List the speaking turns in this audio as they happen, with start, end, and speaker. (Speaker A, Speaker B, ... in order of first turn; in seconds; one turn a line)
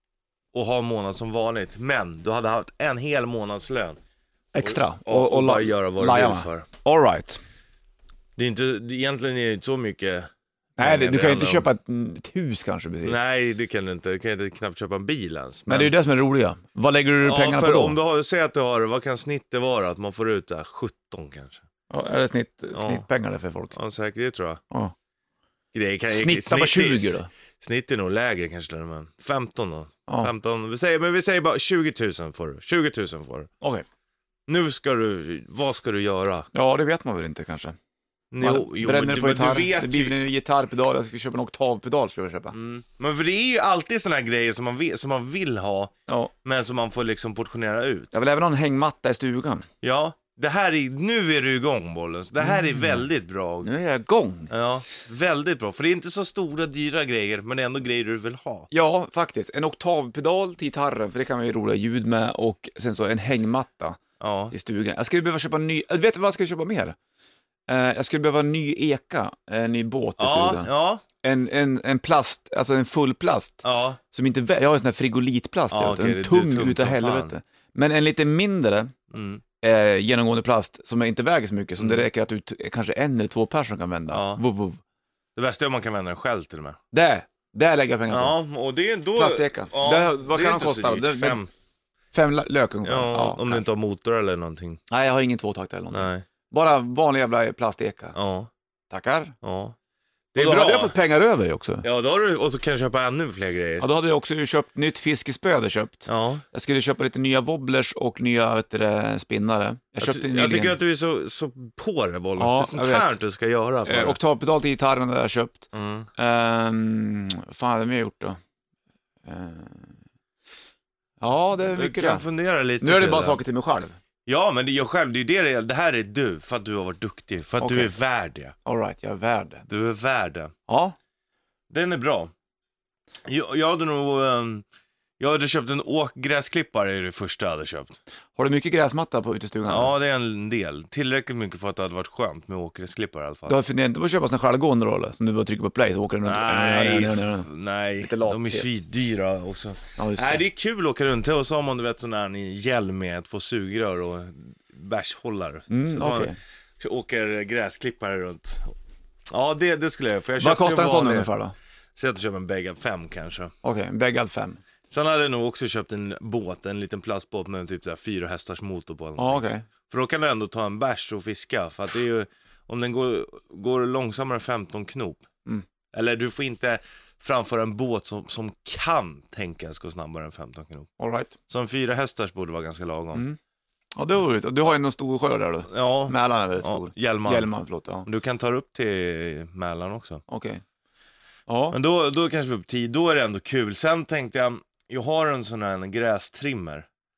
Speaker A: 0.5-4.0
Speaker B: 4.5-7.4
Speaker A: 4.6-6.7
Speaker A: 8.4-11.7
Speaker B: 10.8-13.2
Speaker A: 13.1-15.9
Speaker B: 15.7-18.0
Speaker A: 17.2-21.6
Speaker B: 21.9-23.8
Speaker A: 22.7-23.1
Speaker A: 23.7-24.6
Speaker A: 25.7-33.5
Speaker B: 26.1-27.3
Speaker B: 30.1-30.3
Speaker A: 34.5-36.5
Speaker B: 36.5-37.8
Speaker A: 38.3-40.2
Speaker B: 38.4-42.5
Speaker A: 42.5-45.9
Speaker A: 46.4-48.1
Speaker B: 48.1-49.7
Speaker A: 49.8-53.7
Speaker B: 52.4-53.0
Speaker B: 53.6-54.5
Speaker A: 54.5-58.7
Speaker B: 58.7-64.0
Speaker A: 64.2-64.5
Speaker B: 64.5-67.0
Speaker B: 67.7-70.7
Speaker A: 70.2-71.0
Speaker B: 71.2-78.9
Speaker A: 73.6-74.0
Speaker A: 75.7-77.3
Speaker A: 79.1-79.4
Speaker B: 79.6-84.8
Speaker A: 81.8-82.1
Speaker A: 84.1-84.4
Speaker A: 85.4-86.8
Speaker B: 86.9-88.4
Speaker A: 88.1-91.5
Speaker B: 89.2-91.4
Speaker B: 92.1-93.7
Speaker A: 92.8-94.8
Speaker B: 94.9-98.2
Speaker A: 95.9-96.2
Speaker A: 98.2-98.5
Speaker B: 98.9-99.3
Speaker A: 99.4-99.8
Speaker A: 100.3-101.0
Speaker B: 100.4-101.8
Speaker A: 101.8-103.9
Speaker B: 103.8-110.8
Speaker A: 106.1-106.4
Speaker A: 110.0-114.2
Speaker B: 112.4-113.2
Speaker B: 113.9-118.4
Speaker A: 115.7-116.1
Speaker B: 119.3-120.0
Speaker B: 121.2-122.2
Speaker A: 121.7-123.4
Speaker B: 122.8-124.0
Speaker A: 124.3-128.5
Speaker B: 127.6-127.9
Speaker B: 128.7-129.7
Speaker A: 129.7-130.5
Speaker B: 130.7-130.9
Speaker A: 131.7-132.3
Speaker A: 133.3-134.7
Speaker A: 135.2-138.0
Speaker B: 138.4-139.9
Speaker A: 139.7-143.6
Speaker B: 143.5-147.5
Speaker A: 146.2-158.8
Speaker B: 148.0-148.7
Speaker B: 150.0-150.4
Speaker B: 155.7-156.4
Speaker A: 159.3-161.3
Speaker B: 160.4-161.6
Speaker A: 162.0-163.5
Speaker B: 163.6-164.6
Speaker A: 164.9-175.2
Speaker B: 169.2-169.7
Speaker A: 175.9-180.9
Speaker B: 181.0-181.3
Speaker A: 181.5-183.2
Speaker B: 184.0-188.1
Speaker A: 185.7-187.5
Speaker A: 188.1-190.2
Speaker B: 190.3-190.6
Speaker B: 191.5-191.8
Speaker A: 191.7-196.9